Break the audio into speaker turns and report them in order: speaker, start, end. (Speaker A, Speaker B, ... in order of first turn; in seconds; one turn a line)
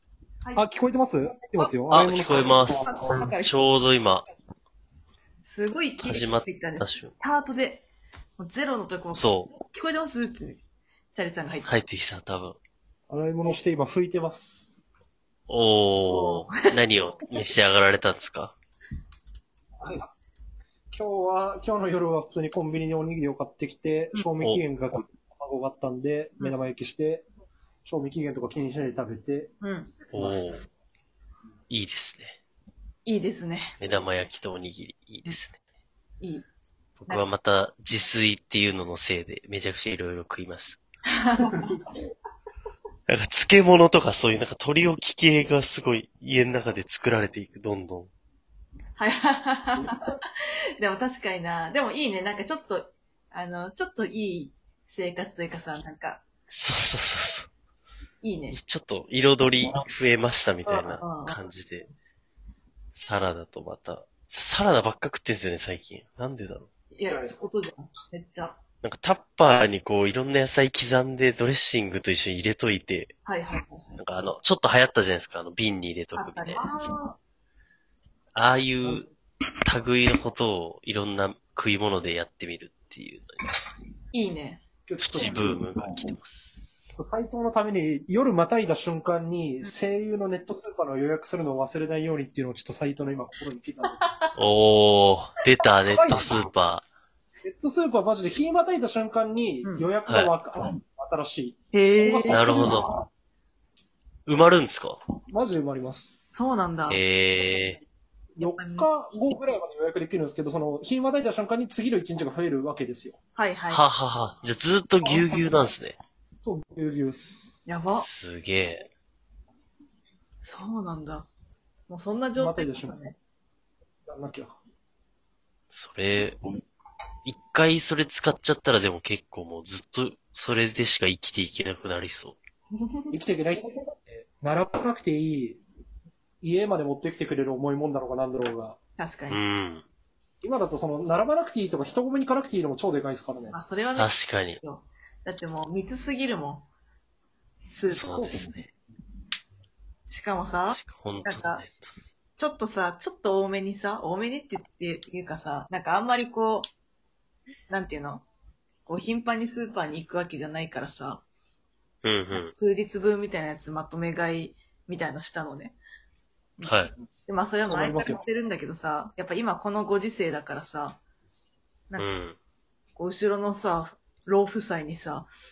Speaker A: 0.6-3.1
Speaker B: 1.9-4.2
Speaker C: 2.3-3.6
Speaker C: 5.4-10.6
Speaker B: 6.0-7.1
Speaker B: 9.1-9.5
Speaker C: 11.1-11.7
Speaker B: 11.6-12.6
Speaker A: 13.1-14.7
Speaker B: 15.5-18.6
Speaker C: 16.1-16.6
Speaker A: 19.8-20.1
Speaker A: 20.9-27.3
Speaker A: 27.9-29.5
Speaker C: 29.6-30.0
Speaker B: 30.1-30.7
Speaker B: 31.7-32.4
Speaker C: 33.0-33.7
Speaker B: 33.8-35.6
Speaker C: 36.2-36.5
Speaker B: 37.0-40.8
Speaker C: 41.1-41.8
Speaker B: 43.1-48.1
Speaker C: 49.0-56.2
Speaker B: 56.5-57.5
Speaker C: 58.2-58.6
Speaker B: 58.5-61.9
Speaker C: 60.7-61.4
Speaker B: 62.9-66.7
Speaker C: 66.9-68.6
Speaker A: 67.0-67.4
Speaker B: 68.8-73.1
Speaker C: 73.2-74.0
Speaker B: 74.0-76.6
Speaker C: 76.1-77.2
Speaker B: 78.3-79.1
Speaker B: 79.6-83.4
Speaker C: 84.1-84.6
Speaker A: 84.9-85.6
Speaker B: 85.0-86.9
Speaker A: 87.0-94.0
Speaker C: 93.8-94.3
Speaker B: 94.3-96.8
Speaker A: 95.9-96.4
Speaker A: 97.4-102.8
Speaker B: 100.1-100.3
Speaker C: 101.7-102.9
Speaker B: 102.3-102.9
Speaker B: 104.3-105.0
Speaker A: 105.3-106.2
Speaker C: 106.3-107.0
Speaker B: 106.9-107.8
Speaker A: 108.3-113.2
Speaker C: 108.4-109.1
Speaker C: 113.3-113.8
Speaker B: 113.7-116.0
Speaker A: 115.0-115.3
Speaker A: 116.4-117.5
Speaker C: 117.7-118.1
Speaker B: 118.0-118.9
Speaker C: 120.4-121.3
Speaker C: 121.9-123.2
Speaker A: 122.3-123.0
Speaker A: 124.0-124.6
Speaker B: 125.7-126.4
Speaker B: 127.2-132.4
Speaker C: 132.8-133.2
Speaker A: 133.1-135.6
Speaker A: 136.4-138.8
Speaker C: 139.0-139.4
Speaker B: 139.3-139.8
Speaker A: 140.4-143.5
Speaker C: 143.5-146.7
Speaker B: 143.9-144.6
Speaker C: 147.7-148.4
Speaker B: 147.9-148.7
Speaker A: 148.1-148.4
Speaker C: 150.1-151.6
Speaker B: 150.7-152.1
Speaker C: 152.4-156.7
Speaker C: 157.7-158.2
Speaker C: 158.8-161.2
Speaker B: 162.0-162.5
Speaker C: 162.3-165.8
Speaker C: 166.6-171.0
Speaker B: 166.6-166.9
Speaker A: 167.7-168.2
Speaker B: 172.0-172.4
Speaker C: 172.9-175.3